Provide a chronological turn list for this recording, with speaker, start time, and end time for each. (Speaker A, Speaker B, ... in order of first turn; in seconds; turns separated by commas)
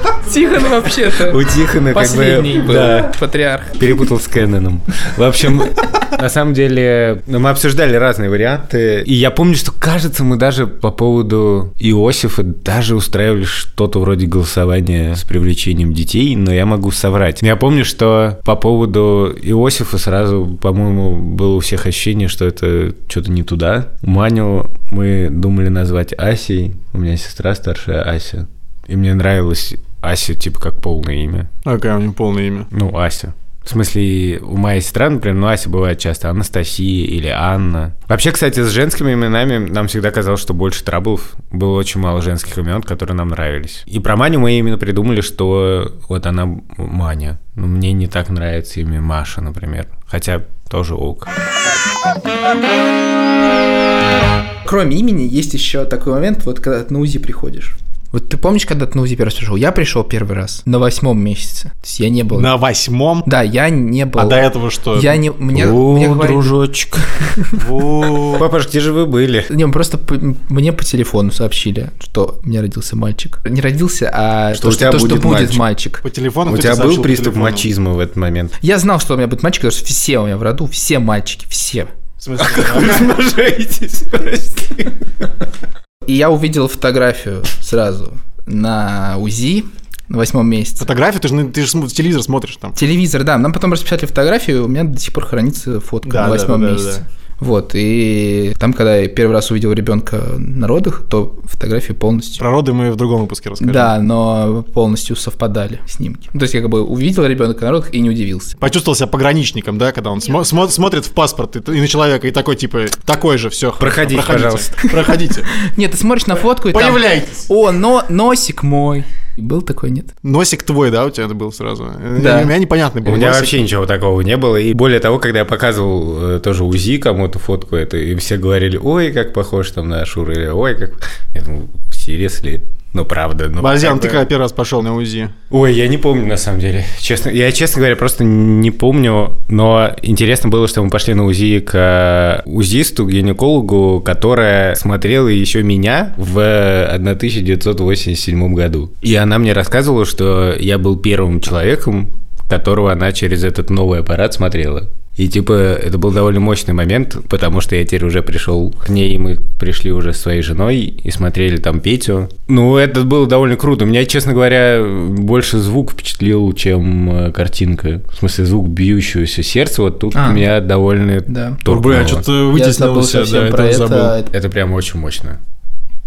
Speaker A: 0.2-4.0, Speaker B: 1.1-3.1, Speaker B: 3.7-31.5, Speaker C: 31.6-32.7, Speaker B: 32.7-51.3, Speaker A: 54.6-62.5, Speaker C: 62.3-63.3, Speaker A: 63.2-66.5, Speaker C: 64.2-65.2, Speaker B: 65.5-67.3, Speaker A: 67.2-67.5, Speaker C: 67.5-68.5, Speaker B: 68.3-69.5, Speaker A: 69.5-76.0, Speaker B: 74.5-75.6, Speaker C: 76.0-77.7, Speaker B: 76.5-78.5, Speaker A: 78.6-81.9, Speaker C: 82.2-83.1, Speaker B: 82.4-85.3, Speaker A: 86.0-90.9, Speaker C: 90.8-92.8, Speaker A: 92.8-102.4, Speaker C: 96.0-97.0, Speaker C: 102.4-103.9, Speaker A: 103.6-108.5, Speaker C: 108.6-115.5, Speaker B: 113.8-114.7, Speaker A: 115.5-120.1, Speaker C: 116.7-117.4, Speaker C: 120.2-123.6, Speaker A: 122.2-122.5, Speaker B: 123.0-134.2, Speaker C: 133.6-135.3, Speaker B: 135.5-172.3, Speaker A: 170.1-170.5, Speaker A: 171.3-171.6, Speaker C: 171.7-174.1, Speaker A: 172.5-174.3, Speaker B: 174.3-175.4